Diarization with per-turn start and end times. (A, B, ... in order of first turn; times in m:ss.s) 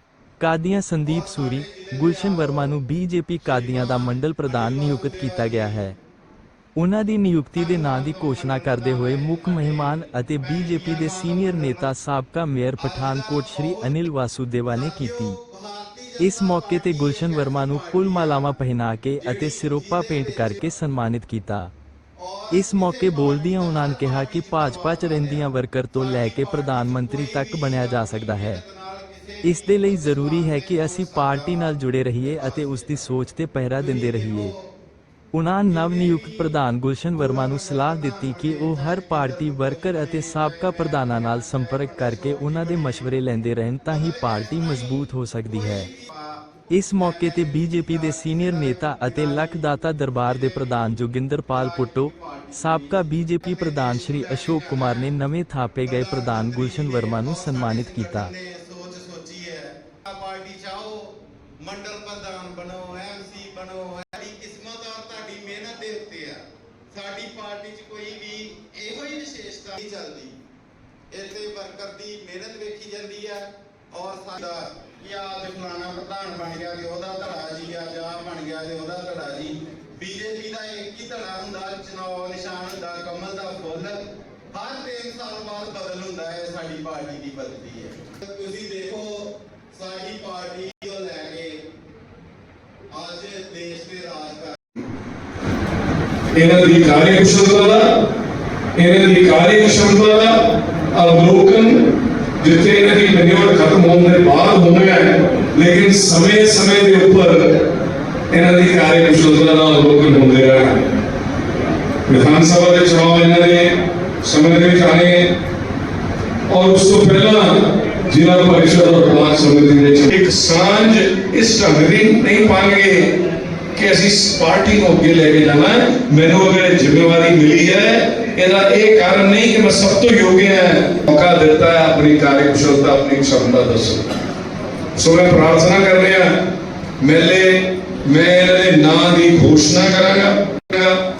0:00.4-0:06.0 A
0:01.1-0:02.7 B
0:03.5-0:05.8 B
0:06.8-0:15.4 A
0:07.7-0:11.9 B
0:12.8-0:13.9 B
0:14.7-0:18.6 B
0:16.2-0:21.7 A
0:19.2-0:20.7 B
0:22.2-0:32.8 B
0:22.5-0:28.6 A
0:29.4-0:34.6 A
0:33.8-0:34.6 B
0:35.3-0:45.9 A
0:35.7-0:36.5 B
0:37.2-0:43.1 B
0:44.0-0:51.0 B
0:46.7-0:58.3 A
0:51.5-0:55.1 B
0:55.9-1:06.4 B
1:06.9-1:10.4 B
1:11.1-1:31.6 B
1:32.9-1:34.8 B
1:36.3-1:37.9 C
1:38.8-1:40.4 C
1:40.9-1:41.9 C
1:42.4-1:47.6 C
1:48.3-1:50.8 C
1:52.1-1:55.3 C
1:56.5-2:03.2 C
2:03.8-2:14.1 C
2:15.0-2:16.3 C
2:17.0-2:21.0 C